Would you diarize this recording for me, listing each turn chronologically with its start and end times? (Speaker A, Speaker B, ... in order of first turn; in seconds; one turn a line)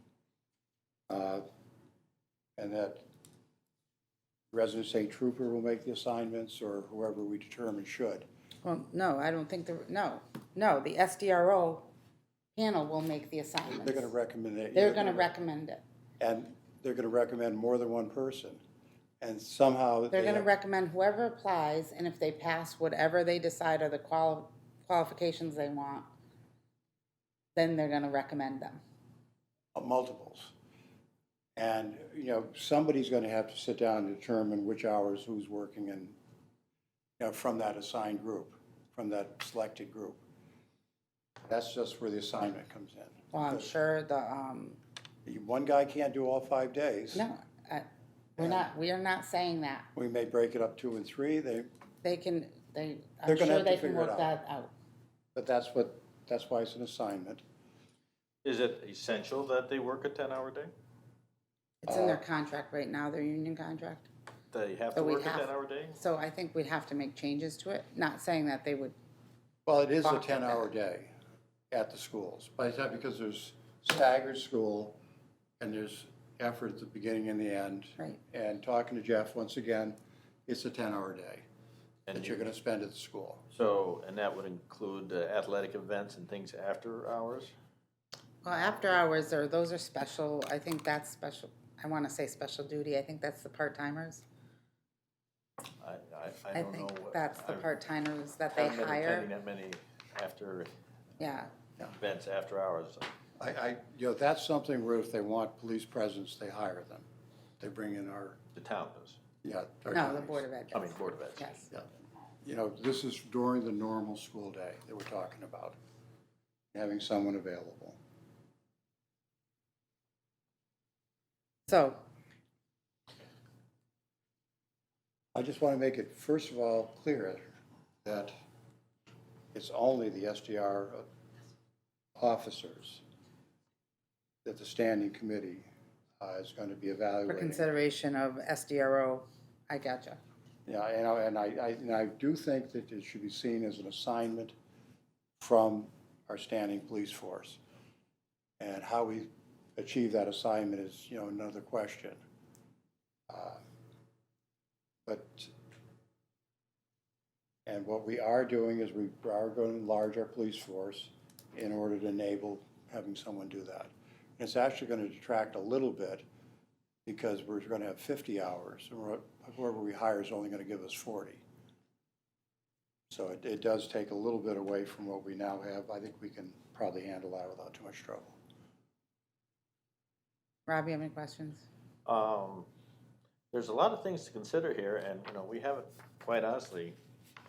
Speaker A: 1.1-1.4
Speaker A: 2.6-3.0
Speaker A: 4.5-8.2
Speaker B: 8.6-11.9
Speaker B: 12.6-14.1
Speaker A: 13.7-15.3
Speaker B: 14.7-15.8
Speaker A: 16.2-18.6
Speaker A: 19.2-20.5
Speaker B: 20.1-26.1
Speaker B: 27.5-28.8
Speaker A: 29.7-30.5
Speaker A: 31.6-36.2
Speaker A: 37.2-40.2
Speaker A: 41.5-43.7
Speaker B: 43.3-44.8
Speaker A: 45.2-47.3
Speaker B: 47.1-49.9
Speaker A: 48.4-48.7
Speaker A: 49.9-51.7
Speaker B: 52.0-54.7
Speaker A: 53.2-54.3
Speaker A: 55.3-57.4
Speaker C: 58.4-60.7
Speaker B: 61.8-64.1
Speaker A: 61.9-62.2
Speaker C: 64.5-66.0
Speaker B: 64.9-68.9
Speaker A: 69.7-71.1
Speaker B: 70.0-70.7
Speaker A: 71.7-75.0
Speaker A: 75.6-81.4
Speaker C: 82.1-82.4
Speaker A: 82.1-83.4
Speaker C: 83.5-87.5
Speaker B: 88.4-94.2
Speaker C: 95.8-97.7
Speaker B: 96.5-99.3
Speaker C: 98.5-100.7
Speaker B: 101.2-101.5
Speaker C: 101.9-103.1
Speaker A: 103.4-107.1
Speaker A: 107.6-108.4
Speaker C: 108.5-109.2
Speaker A: 109.4-110.4
Speaker B: 109.9-111.7
Speaker C: 110.7-111.5
Speaker A: 112.4-115.8
Speaker A: 116.7-118.0
Speaker B: 121.7-122.0
Speaker A: 125.3-127.5
Speaker A: 128.0-128.3
Speaker A: 129.5-131.0
Speaker A: 132.2-133.0
Speaker A: 134.4-135.7
Speaker A: 136.2-137.6
Speaker B: 137.3-140.2
Speaker A: 140.7-144.5
Speaker A: 145.4-147.6
Speaker A: 148.6-152.2
Speaker A: 153.3-153.6
Speaker A: 155.1-155.5
Speaker A: 157.7-166.2
Speaker A: 167.1-171.4
Speaker A: 173.1-178.4
Speaker B: 180.7-181.7
Speaker C: 182.1-182.7
Speaker C: 183.5-186.9